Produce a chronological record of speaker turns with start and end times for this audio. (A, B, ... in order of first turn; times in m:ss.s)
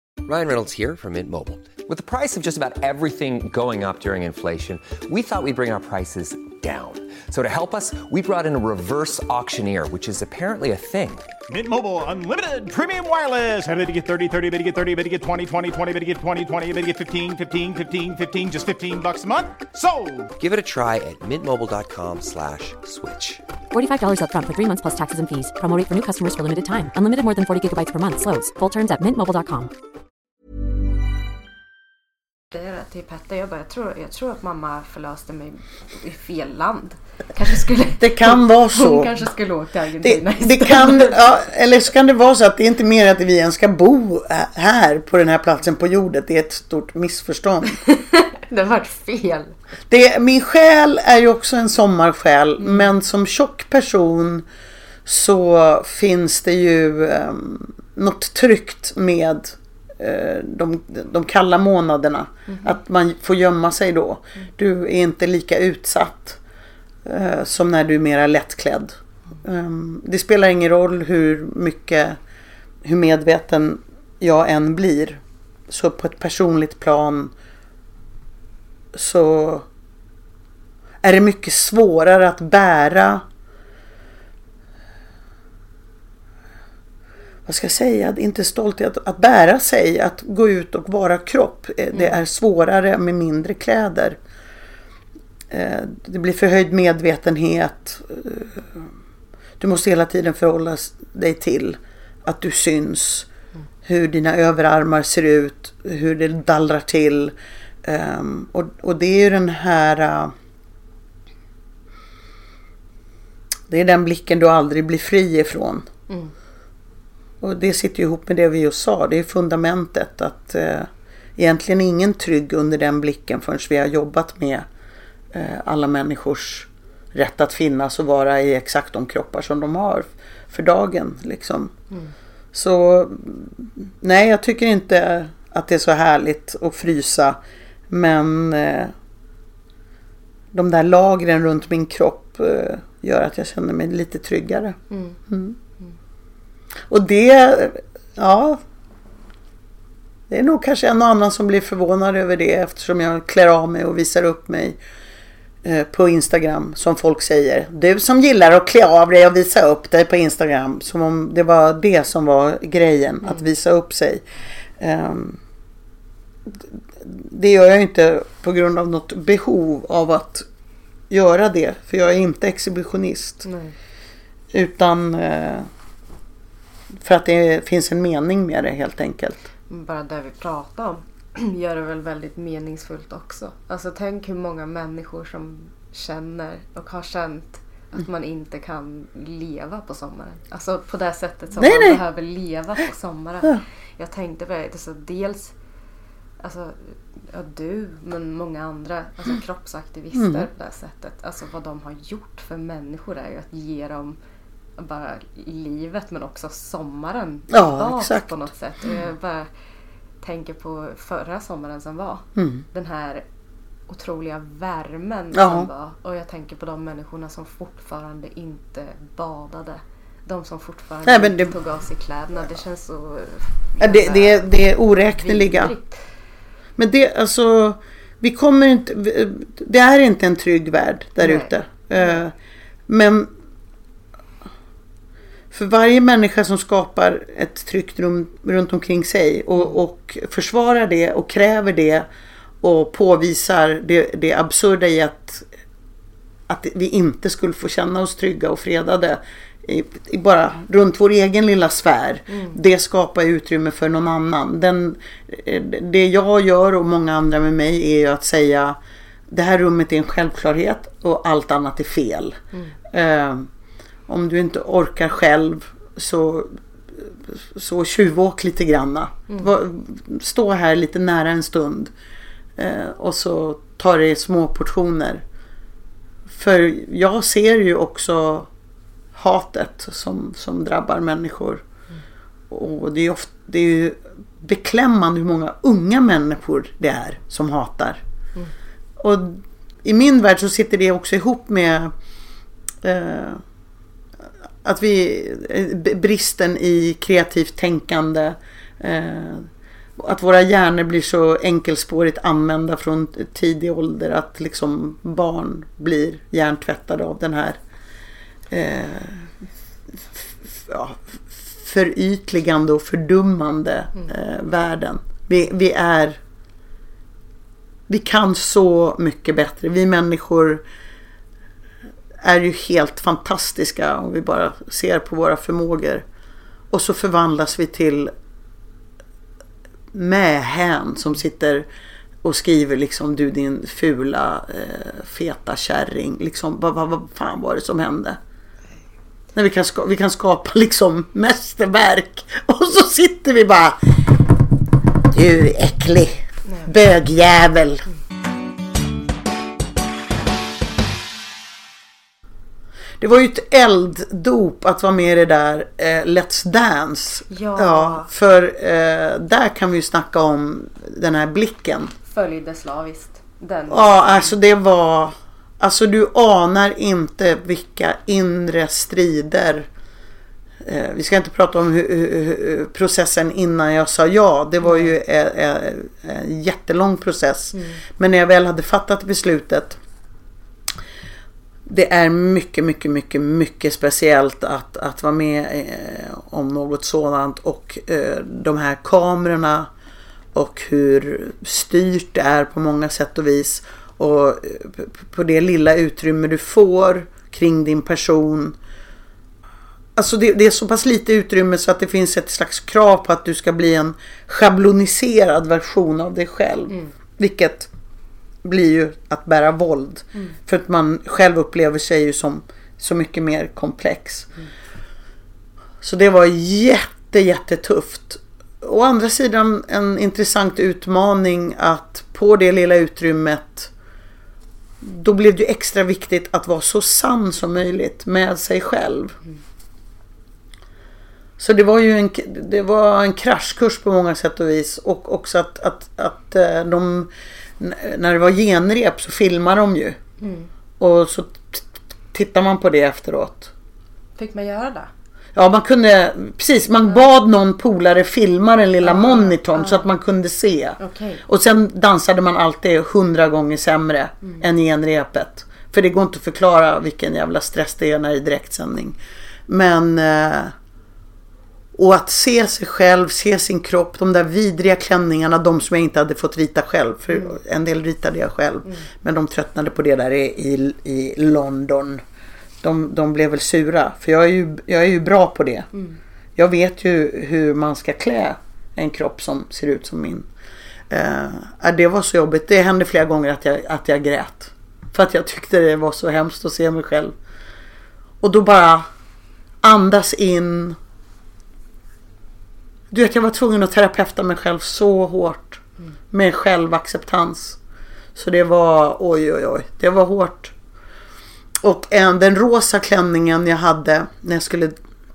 0:00.2-0:11.3 A
0:11.5-0:20.3 B
0:20.4-0:23.4 A
0:23.7-0:29.7 C
0:32.5-0:41.4 D
0:38.0-0:39.1 E
0:40.0-0:47.8 E
0:47.8-0:49.6 D
0:49.9-0:54.4 E
0:52.6-0:52.9 D
0:55.0-1:06.4 E
1:02.5-1:02.8 D
1:07.0-1:12.2 E
1:12.8-1:17.3 E
1:18.9-1:19.7 E
1:21.0-1:23.2 E
1:27.5-1:34.2 E
1:35.5-1:38.9 E
1:39.6-1:43.3 E
1:43.8-1:50.3 E
1:53.7-1:55.9 E
1:57.4-2:04.7 E
2:05.3-2:11.7 E
2:12.5-2:17.4 E
2:17.9-2:18.9 E
2:20.5-2:24.8 E
2:24.9-2:25.2 D
2:25.3-2:25.6 E
2:26.9-2:28.6 E
2:30.3-2:34.8 E
2:35.6-2:44.2 E
2:44.8-2:45.4 E
2:46.5-2:50.5 E
2:51.1-2:53.4 E
2:53.4-2:53.8 D
2:54.5-2:55.7 E
2:57.0-2:59.5 E
2:59.7-3:15.5 D
3:11.6-3:12.0 E
3:16.4-3:24.2 D
3:20.1-3:20.5 E
3:24.8-3:29.5 D
3:27.5-3:28.3 E
3:30.2-3:33.2 D
3:32.4-3:32.6 E
3:33.9-3:44.5 D
3:35.3-3:35.7 E
3:41.0-3:41.6 E
3:43.8-3:45.7 E
3:45.2-3:46.0 D
3:46.8-3:52.3 E
3:51.2-3:52.2 D
3:52.9-3:53.3 E
3:55.5-4:02.1 E
4:02.6-4:05.5 E
4:06.5-4:18.8 E
4:12.3-4:12.6 D
4:19.3-4:22.4 E
4:22.9-4:23.5 E
4:24.1-4:31.9 E
4:32.6-4:35.2 E
4:36.3-4:38.5 E
4:39.1-4:41.6 E
4:42.5-4:48.0 E
4:49.0-4:51.9 E
4:52.8-4:53.4 E
4:54.6-5:07.6 E
5:08.5-5:09.3 E
5:09.9-5:16.2 E
5:17.9-5:20.6 E
5:22.2-5:26.0 E
5:26.7-5:28.1 E
5:29.9-5:31.7 E
5:32.2-5:38.2 E
5:39.4-5:43.8 E
5:45.1-5:47.8 E
5:46.5-5:46.7 D
5:53.0-6:01.9 E
5:57.3-5:58.1 D
6:02.1-6:04.3 D
6:03.7-6:09.7 E
6:10.6-6:19.8 E
6:14.6-6:15.0 D
6:17.5-6:17.8 D
6:21.7-6:29.7 E
6:30.3-6:38.6 E
6:40.0-6:47.7 E
6:48.4-6:54.3 E
6:55.8-7:03.7 E
7:04.8-7:09.2 E
7:11.4-7:20.0 E
7:20.2-7:20.5 D
7:20.8-7:23.5 E
7:24.2-7:24.9 D
7:25.4-7:39.0 E
7:28.8-7:29.8 D
7:30.8-7:31.2 D
7:39.5-7:40.5 E
7:41.7-7:52.0 E
7:47.1-7:47.4 D
7:52.6-7:55.7 E
7:56.4-8:00.3 E
8:00.9-8:07.2 E
8:08.2-8:08.9 E
8:09.6-8:10.8 E
8:12.9-8:17.6 E
8:18.2-8:20.5 E
8:21.6-8:24.8 E